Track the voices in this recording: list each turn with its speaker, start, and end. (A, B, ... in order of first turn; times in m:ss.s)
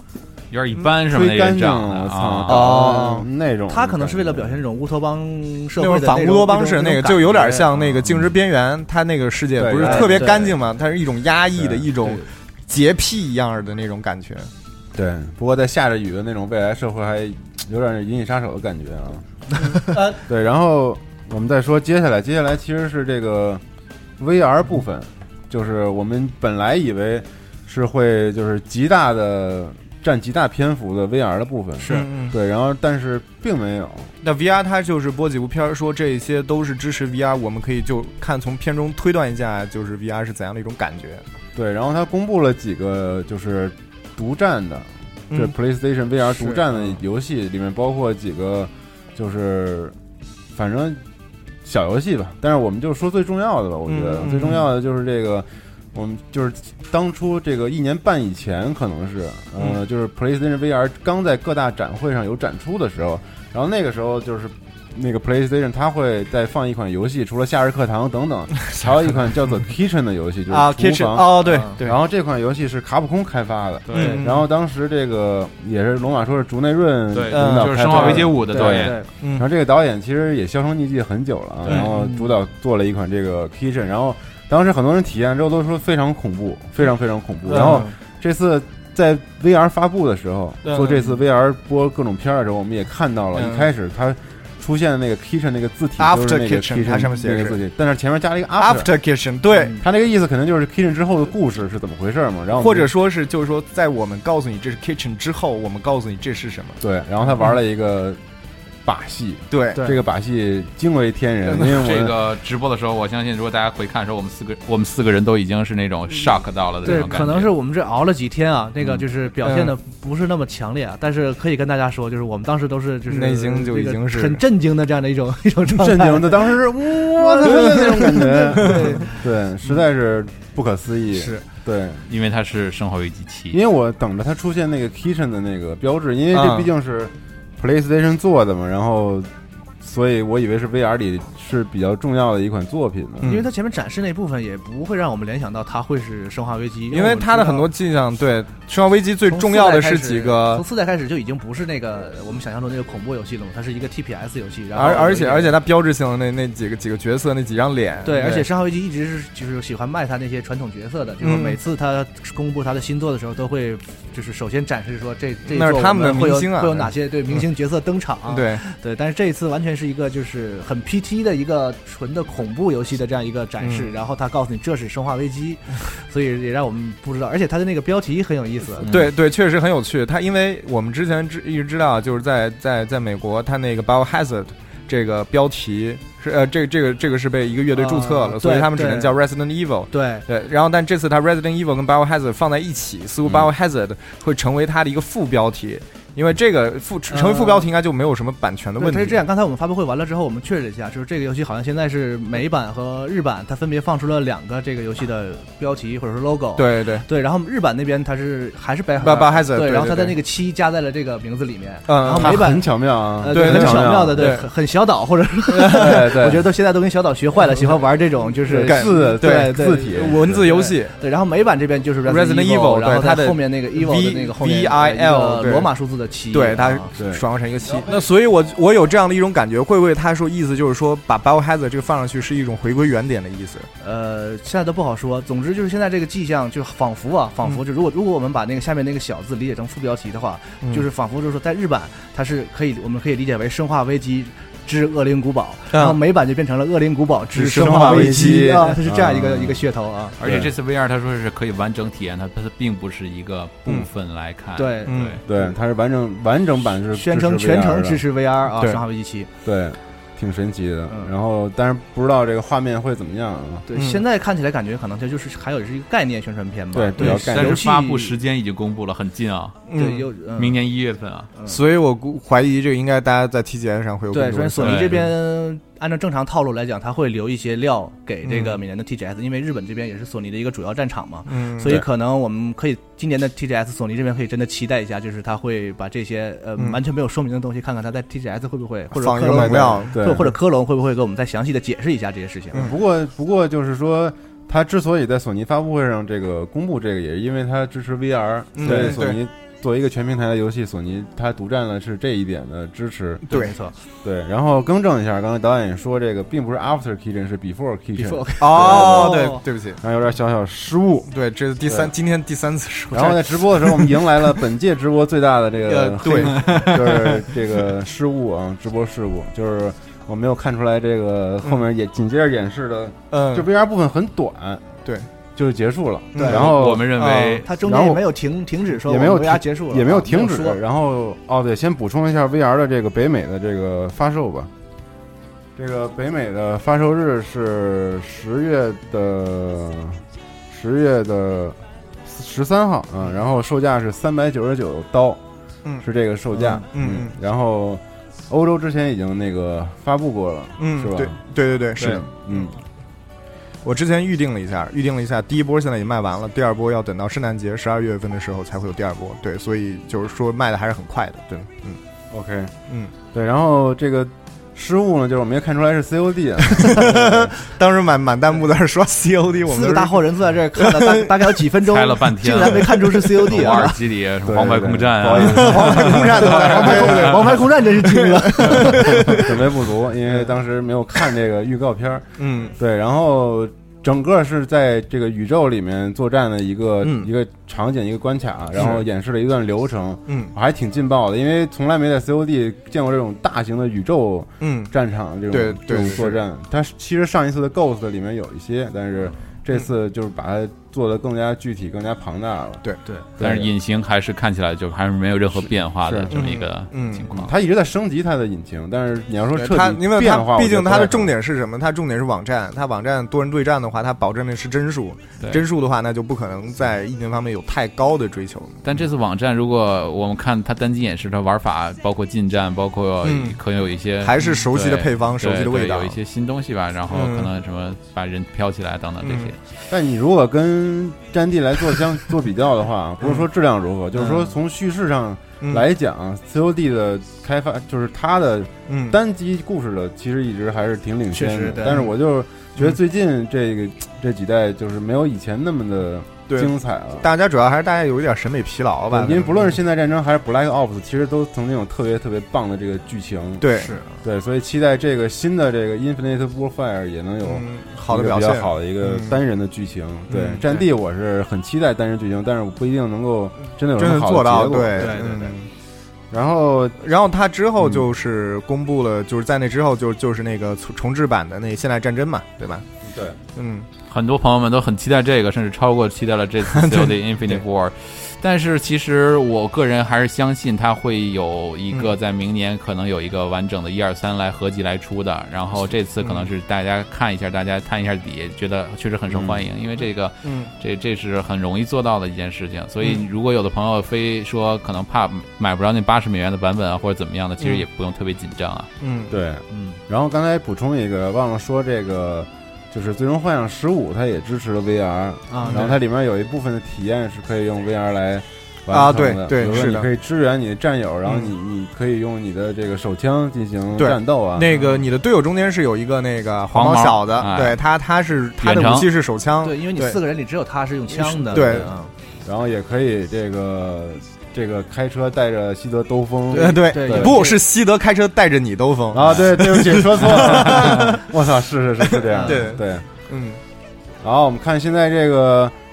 0:00.5-0:02.7 A
0:00.9-0:04.6 B
0:02.5-0:03.2 C
0:02.6-0:08.1 D
0:05.8-0:14.5 C
0:09.6-0:10.5 B
0:09.8-0:10.6 D
0:11.6-0:11.9 B
0:12.0-0:12.3 D
0:14.9-0:19.3 B
0:19.8-0:20.2 D
0:20.1-0:23.6 B
0:24.2-0:34.1 B
0:31.8-0:32.1 D
0:31.8-0:32.3 C
0:34.2-0:41.2 C
0:41.5-0:49.9 B
0:46.3-0:46.8 C
0:50.5-0:51.0 B
0:51.6-1:38.9 B
0:53.9-0:54.7 C
1:10.5-1:12.0 C
1:11.4-1:11.8 D
1:13.9-1:14.2 A
1:13.9-1:14.4 C
1:13.9-1:14.2 D
1:17.1-1:19.0 A
1:17.3-1:18.2 C
1:17.9-1:19.1 D
1:19.2-1:19.4 C
1:21.7-1:22.3 D
1:27.5-1:27.9 D
1:27.5-1:27.8 C
1:30.6-1:31.0 C
1:33.3-1:33.7 C
1:36.0-1:37.6 C
1:38.6-1:39.8 C
1:39.6-1:39.8 D
1:39.8-1:42.9 B
1:42.5-1:46.8 C
1:46.8-1:48.2 B
1:48.8-1:52.2 B
1:49.5-1:49.8 C
1:51.6-1:57.5 A
1:56.8-2:09.2 D
1:59.4-1:59.7 C
2:03.1-2:04.4 C
2:05.7-2:12.0 B
2:11.1-2:11.4 D
2:12.1-2:13.6 A
2:13.5-2:23.4 B
2:16.3-2:16.7 C
2:23.2-2:23.4 C
2:23.2-2:27.7 D
2:26.9-2:30.6 C
2:29.2-2:35.6 D
2:34.7-2:38.5 C
2:38.0-2:58.9 D
2:41.2-2:41.6 C
2:45.5-2:47.5 C
2:48.3-2:48.6 C
2:53.6-2:53.9 C
2:58.8-3:19.2 C
3:07.7-3:09.2 D
3:09.9-3:10.2 D
3:17.1-3:17.7 D
3:18.8-3:46.9 D
3:26.6-3:27.0 C
3:29.0-3:30.2 C
3:31.9-3:32.4 C
3:32.1-3:34.4 B
3:33.3-3:34.5 C
3:35.5-3:35.9 C
3:35.6-3:36.5 B
3:38.5-3:40.4 B
3:38.5-3:41.0 C
3:42.0-3:45.7 C
3:46.3-3:53.7 C
3:47.0-3:47.2 B
3:53.8-4:10.2 D
4:05.7-4:06.0 C
4:07.3-4:08.5 C
4:07.3-4:09.7 B
4:10.2-4:15.2 A
4:10.2-4:10.5 B
4:14.6-4:15.5 D
4:14.8-4:15.2 C
4:15.2-4:18.0 B
4:16.9-4:19.3 D
4:18.5-4:18.8 C
4:19.4-4:23.6 B
4:20.9-4:21.1 D
4:23.6-4:28.2 D
4:23.7-4:24.0 C
4:26.7-4:27.7 B
4:27.0-4:29.6 A
4:29.7-4:30.1 C
4:29.7-4:30.6 D
4:30.4-4:31.3 A
4:31.3-4:31.6 D
4:31.5-4:34.9 C
4:34.1-4:52.7 D
4:34.6-4:35.1 A
4:38.2-4:38.6 C
4:41.3-4:41.8 C
4:48.9-4:50.0 C
4:49.3-4:50.3 B
4:52.5-5:03.2 B
4:58.5-4:59.2 C
4:58.6-4:59.0 D
5:03.3-5:03.7 D
5:04.0-5:11.1 B
5:08.0-5:09.4 D
5:08.4-5:09.8 C
5:11.1-5:14.0 C
5:11.6-5:11.9 B
5:12.9-5:24.6 B
5:15.7-5:17.3 C
5:16.2-5:16.6 D
5:23.1-5:23.5 C
5:25.3-5:26.9 B
5:26.1-5:26.4 C
5:26.3-5:27.5 A
5:26.9-5:27.4 C
5:27.0-5:30.6 D
5:27.6-5:28.0 B
5:28.7-5:34.5 B
5:35.6-5:45.2 B
5:45.8-5:51.2 B
5:46.4-5:47.1 C
5:50.6-5:52.5 C
5:51.8-5:52.5 B
5:53.6-6:01.8 C
6:02.1-6:02.5 B
6:03.1-6:07.3 B
6:06.5-6:11.4 C
6:09.5-6:13.8 D
6:11.6-6:17.1 A
6:14.2-6:17.3 B
6:15.2-6:19.3 C
6:15.4-6:19.3 D
6:18.6-6:42.6 B
6:22.2-6:22.5 C
6:28.6-6:28.8 C
6:30.1-6:30.3 C
6:34.4-6:34.7 C
6:35.3-6:36.2 C
6:43.2-6:43.5 B
6:43.2-6:47.3 A
6:45.4-6:46.3 B
6:46.1-6:47.1 C
6:47.1-6:51.1 B
6:49.3-6:58.6 C
6:58.6-7:09.4 A
7:03.0-7:03.4 C
7:04.0-7:06.0 C
7:06.9-7:07.3 C
7:09.0-7:09.3 C
7:09.7-7:27.1 B
7:13.9-7:14.3 D
7:18.7-7:19.0 C
7:21.1-7:21.9 D
7:26.3-7:29.6 C
7:28.9-7:45.0 B
7:33.4-7:33.7 C
7:33.5-7:34.0 D
7:37.2-7:39.2 C
7:40.1-7:40.4 C
7:43.8-7:45.5 C
7:44.8-7:45.3 D
7:46.1-7:46.8 B
7:46.8-7:52.6 C
7:47.6-7:47.8 B
7:52.8-7:53.2 B
7:53.3-7:53.7 C
7:53.9-8:18.7 A
7:56.5-7:56.9 C
8:06.0-8:06.3 C
8:09.1-8:09.4 B
8:10.2-8:10.5 C
8:18.8-8:19.1 C
8:19.1-8:34.5 B
8:19.5-8:19.8 D
8:25.3-8:25.7 D
8:25.4-8:25.7 C
8:28.7-8:29.9 C
8:31.0-8:31.3 C
8:33.8-8:40.0 C
8:34.5-8:34.8 D
8:36.5-8:37.6 A
8:38.4-8:38.9 A
8:39.4-8:41.9 D
8:40.9-8:41.7 C
8:42.2-8:47.2 B
8:46.3-8:47.4 D
8:46.3-8:51.0 C
8:48.9-8:52.8 B
8:51.9-8:53.4 C
8:52.1-8:52.6 D
8:54.0-8:55.5 B